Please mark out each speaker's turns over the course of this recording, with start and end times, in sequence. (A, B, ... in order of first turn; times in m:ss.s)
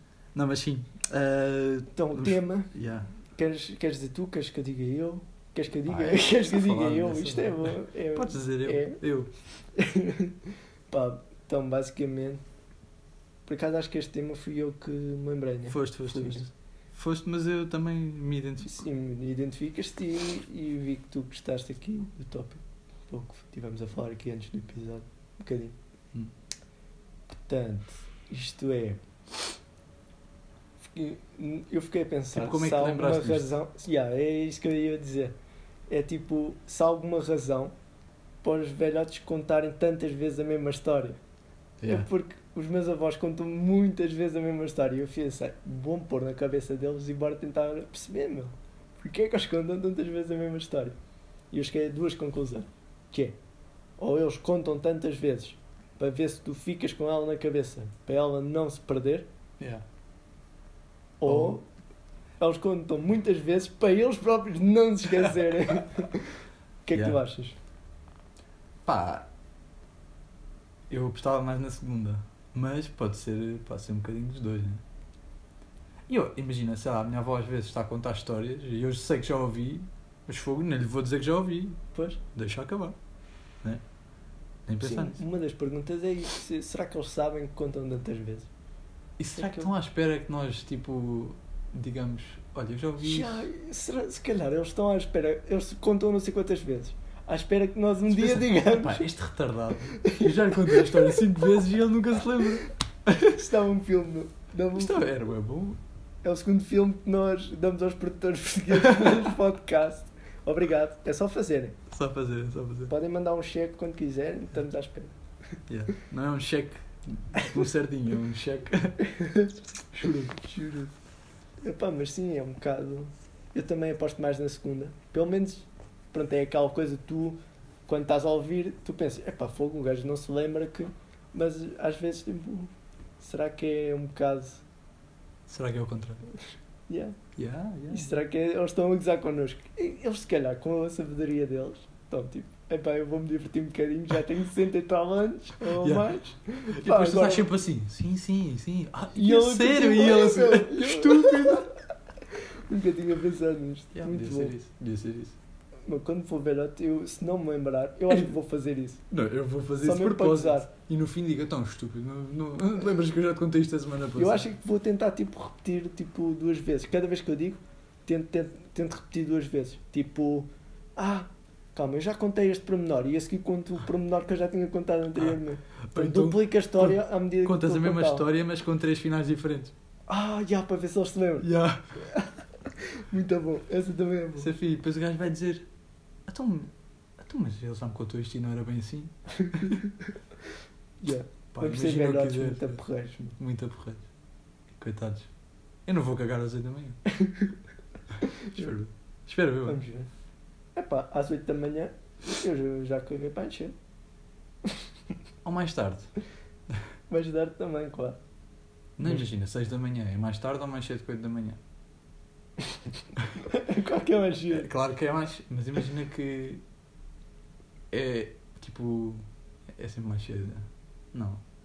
0:00.3-0:03.1 A
0:02.0-0:02.7 B
0:03.3-0:09.0 B
0:05.9-0:09.3 A
0:09.8-0:10.4 B
0:10.9-0:12.4 B
0:13.5-0:16.5 B
0:15.7-0:18.8 A
0:18.6-0:25.8 B
0:27.4-0:29.0 B
0:30.8-0:35.4 B
0:32.4-0:33.5 A
0:35.9-0:37.7 B
0:38.4-0:41.2 B
0:41.8-0:42.1 A
0:41.9-0:51.0 B
0:51.5-0:53.4 B
0:54.0-0:59.3 B
0:59.6-0:59.8 A
1:01.2-1:01.6 B
1:01.3-1:01.6 A
1:02.4-1:07.6 B
1:08.8-1:09.3 A
1:10.9-1:14.8 A
1:16.1-1:21.8 A
1:21.9-1:22.2 B
1:22.3-1:23.0 A
1:24.7-1:25.2 A
1:24.8-1:28.5 B
1:29.2-1:33.5 A
1:29.4-1:29.7 B
1:33.0-1:39.1 B
1:38.1-1:43.4 A
1:40.0-1:41.2 B
1:43.2-1:45.1 B
1:44.8-1:45.8 A
1:46.2-1:51.8 B
1:48.7-1:49.3 A
1:51.9-1:52.9 A
1:52.9-1:55.2 B
1:55.7-1:59.1 A
1:59.1-1:59.5 B
1:59.9-2:00.5 A
2:00.4-2:00.9 B
2:01.6-2:14.6 B
2:15.5-2:16.3 A
2:16.9-2:17.2 B
2:17.4-2:18.2 A
2:17.9-2:27.5 B
2:25.8-2:26.2 A
2:26.7-2:31.7 A
2:29.2-2:31.7 B
2:32.7-2:34.6 B
2:33.9-2:35.4 A
2:35.9-2:39.0 B
2:39.1-2:44.5 A
2:39.8-2:40.7 B
2:44.2-2:58.3 B
2:55.2-2:59.7 A
3:00.1-3:01.5 B
3:01.4-3:02.0 A
3:02.0-3:04.5 B
3:04.4-3:05.7 A
3:06.3-3:09.8 A
3:09.4-3:09.8 B
3:11.0-3:13.4 B
3:11.5-3:12.8 A
3:13.4-3:14.0 A
3:14.7-3:15.3 A
3:15.9-3:17.0 A
3:17.1-3:17.5 B
3:18.2-3:18.8 B
3:18.6-3:19.8 A
3:19.7-3:20.1 B
3:20.8-3:23.7 B
3:25.4-3:26.1 A
3:27.1-3:28.2 B
3:29.0-3:31.6 A
3:33.5-3:34.7 B
3:34.5-3:36.6 A
3:37.9-3:41.4 A